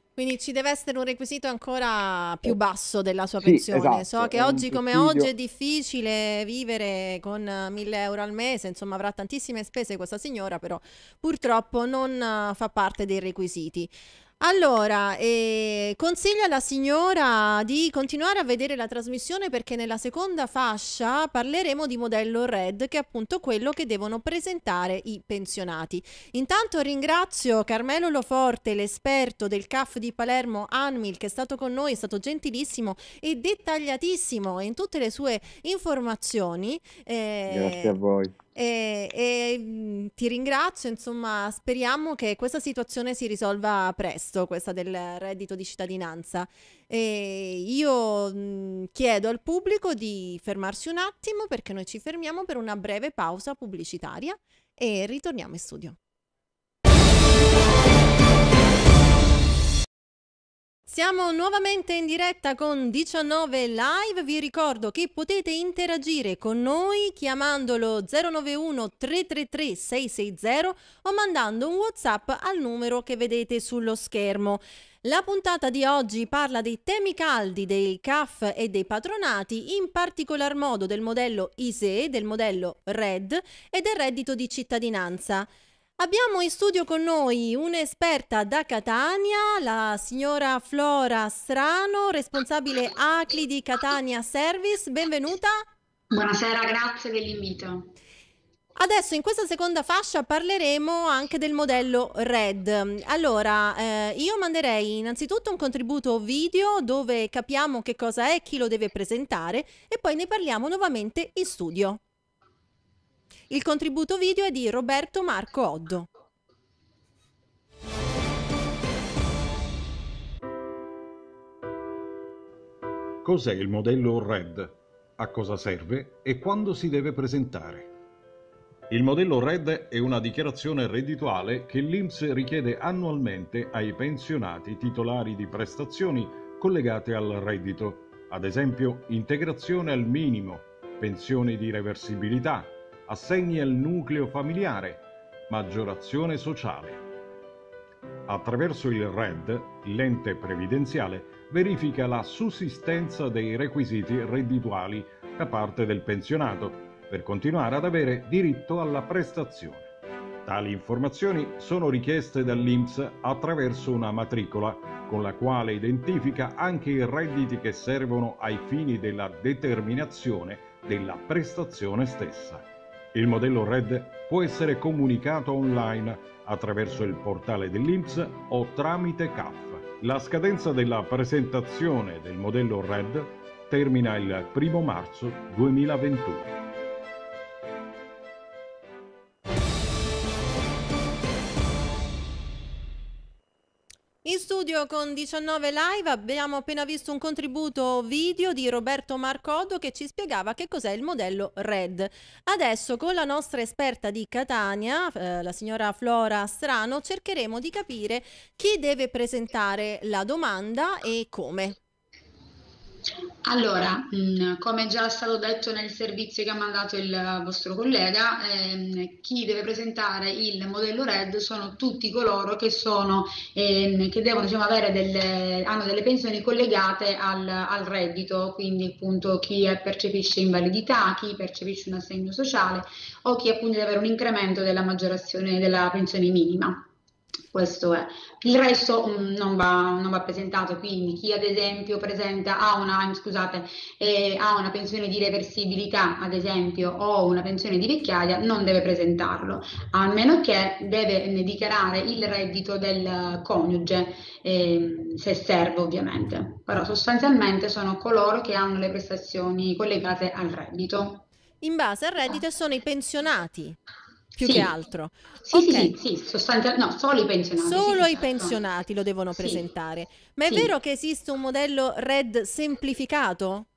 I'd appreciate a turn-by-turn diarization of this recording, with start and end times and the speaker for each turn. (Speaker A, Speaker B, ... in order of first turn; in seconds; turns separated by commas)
Speaker A: 0.2-38.0, Speaker B: 3.4-5.3, Speaker B: 37.5-38.4, Speaker A: 38.5-56.0, Speaker A: 60.9-85.5, Speaker A: 86.0-95.6, Speaker C: 96.1-97.9, Speaker A: 98.8-112.0, Speaker A: 113.5-116.1, Speaker D: 123.2-127.9, Speaker D: 128.9-147.0, Speaker D: 148.3-159.9, Speaker D: 160.5-186.5, Speaker A: 194.2-211.8, Speaker C: 213.5-236.8, Speaker C: 237.5-261.2, Speaker A: 261.6-263.8, Speaker A: 264.4-265.9, Speaker C: 264.4-264.7, Speaker C: 265.4-268.6, Speaker A: 267.6-273.7, Speaker C: 269.3-269.6, Speaker C: 270.4-270.7